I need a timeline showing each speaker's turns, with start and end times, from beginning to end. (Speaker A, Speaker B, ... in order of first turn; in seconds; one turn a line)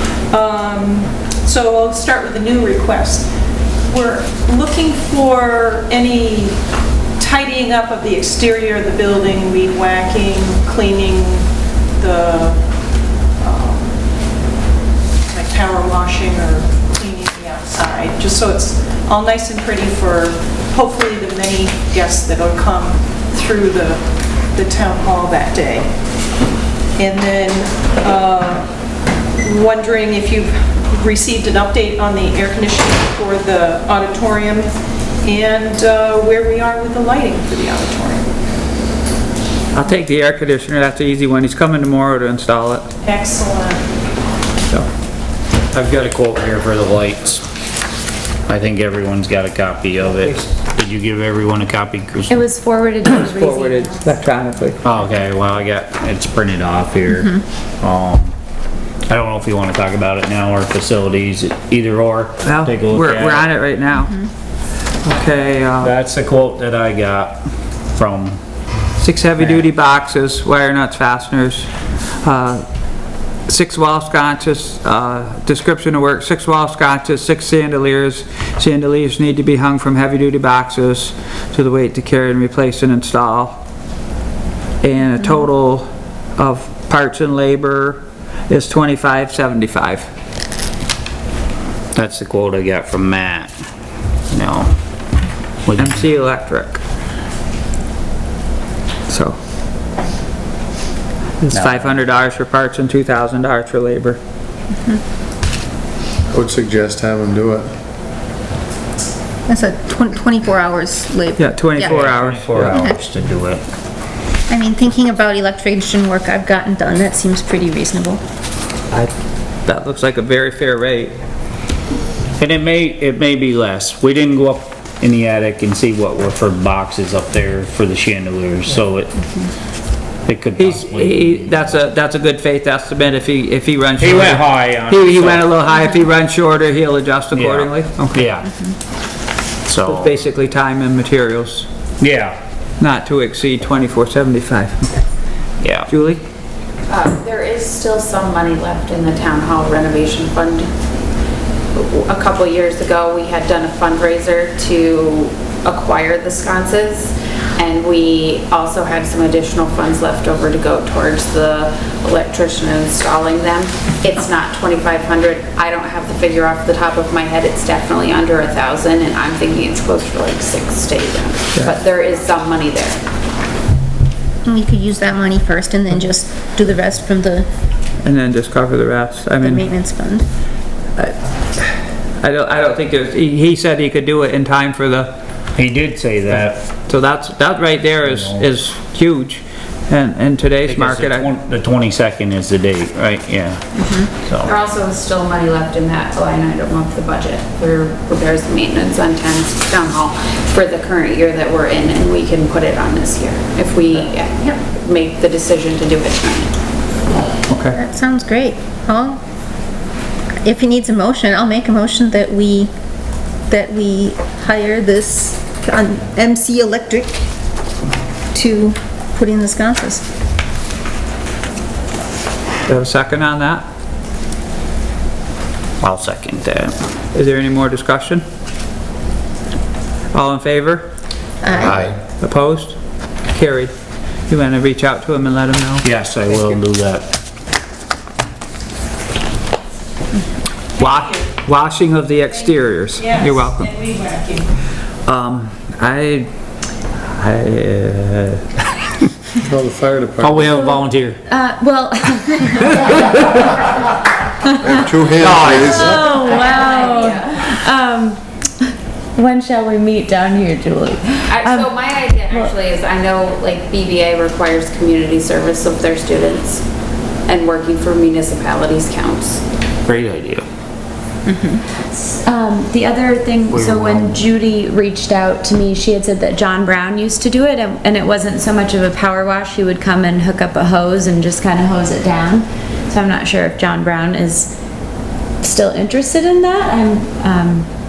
Speaker A: 0.3-3.3
Speaker A: 3.9-6.6
Speaker A: 7.2-11.5
Speaker A: 12.0-12.6
Speaker A: 13.4-14.0
Speaker A: 15.3-25.9
Speaker A: 27.0-28.7
Speaker A: 29.4-38.3
Speaker B: 39.7-42.9
Speaker A: 43.0-43.9
Speaker C: 45.7-47.4
Speaker C: 48.5-52.4
Speaker D: 52.3-54.2
Speaker B: 53.0-54.8
Speaker C: 54.8-58.3
Speaker C: 59.1-63.5
Speaker B: 62.4-64.2
Speaker E: 63.9-64.3
Speaker B: 65.0-65.9
Speaker C: 65.8-68.4
Speaker B: 69.0-71.7
Speaker B: 72.2-72.7
Speaker B: 73.5-83.6
Speaker B: 84.8-90.1
Speaker C: 91.9-93.5
Speaker C: 94.3-94.7
Speaker C: 95.7-96.0
Speaker B: 95.8-96.8
Speaker B: 99.1-99.4
Speaker B: 101.4-104.2
Speaker C: 101.5-101.9
Speaker F: 106.3-107.7
Speaker E: 109.5-112.0
Speaker B: 111.4-112.8
Speaker C: 111.8-113.6
Speaker E: 112.7-112.9
Speaker E: 114.5-118.2
Speaker B: 119.7-121.2
Speaker C: 122.4-129.2
Speaker C: 130.3-131.6
Speaker B: 130.6-138.2
Speaker C: 134.0-135.5
Speaker C: 137.3-138.7
Speaker C: 139.7-140.2
Speaker B: 139.9-141.7
Speaker C: 142.0-142.4
Speaker B: 142.8-145.0
Speaker C: 145.6-145.9
Speaker B: 145.9-146.2
Speaker G: 146.9-150.7
Speaker G: 151.8-173.0
Speaker E: 174.4-177.5
Speaker B: 178.0-179.7
Speaker E: 179.4-180.3
Speaker B: 181.0-185.2
Speaker C: 185.6-186.6
Speaker B: 186.8-191.3
Speaker C: 188.1-188.4
Speaker C: 190.7-194.5
Speaker E: 193.8-194.1
Speaker G: 194.4-206.5
Speaker B: 207.5-207.8
Speaker E: 207.7-209.2
Speaker E: 210.4-212.7
Speaker E: 213.5-217.2
Speaker E: 218.3-220.0
Speaker B: 222.7-223.7
Speaker C: 225.8-226.8
Speaker B: 227.1-228.2
Speaker B: 230.1-230.9
Speaker E: 231.4-231.8
Speaker C: 231.6-232.0
Speaker B: 232.2-232.8
Speaker B: 233.3-233.7
Speaker B: 234.3-235.9
Speaker C: 235.8-237.1
Speaker B: 240.8-243.9
Speaker A: 243.0-244.4
Speaker B: 245.1-246.3
Speaker B: 247.0-248.4
Speaker F: 249.4-250.5
Speaker C: 250.2-251.2
Speaker D: 250.5-252.9
Speaker F: 254.7-256.0
Speaker C: 255.2-256.0
Speaker D: 255.7-261.8
Speaker G: 256.0-257.4
Speaker G: 261.3-266.6
Speaker G: 267.3-269.4
Speaker C: 269.9-270.4
Speaker E: 271.3-271.6
Speaker D: 271.8-284.5
Speaker C: 273.5-274.2
Speaker D: 285.4-287.7